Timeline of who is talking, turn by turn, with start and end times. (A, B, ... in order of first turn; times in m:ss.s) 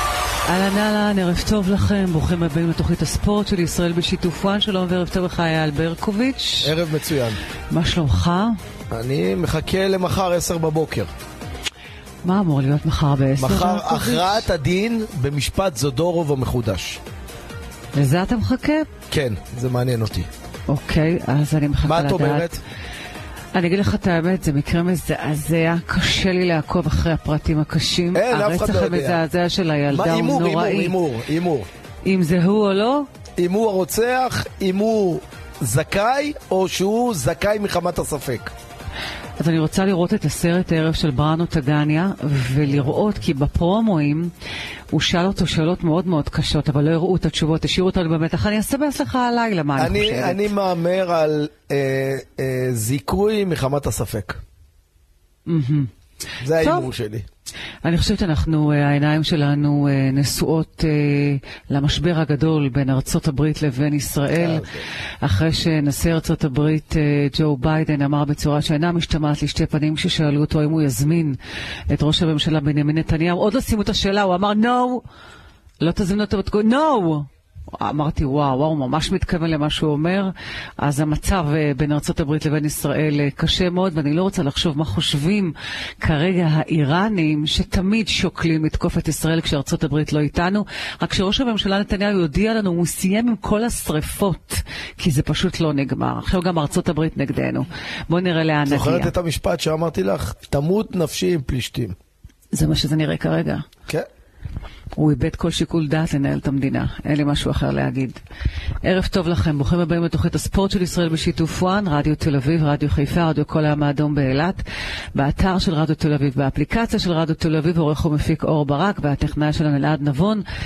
0:00.5-0:06.7 A
0:06.6-0:07.4 B
0:07.7-0:08.5 A
0:08.9-0:11.1 B
0:12.2-0:14.4 A
0:13.4-0:17.0 B
0:18.0-0:18.9 A
0:19.1-0:20.3 B
0:20.7-0:22.6 A
0:21.8-0:22.6 B
0:23.6-0:31.0 A
0:28.1-0:29.2 B
0:29.9-0:31.7 B
0:32.0-0:33.1 A
0:33.4-0:38.5 B
0:39.4-0:44.3 A
0:44.9-0:50.5 A
0:49.8-0:54.4 B
0:55.5-0:55.9 A
0:56.4-0:57.3 B
0:56.6-0:56.9 A
0:57.8-1:04.7 A
1:04.4-1:04.8 B
1:05.2-1:11.4 A
1:11.9-1:15.0 A
1:15.8-1:39.1 A
1:38.7-1:42.0 B
1:42.5-1:43.6 A
1:45.0-1:48.2 A
1:48.8-1:54.6 A
1:55.2-2:00.4 A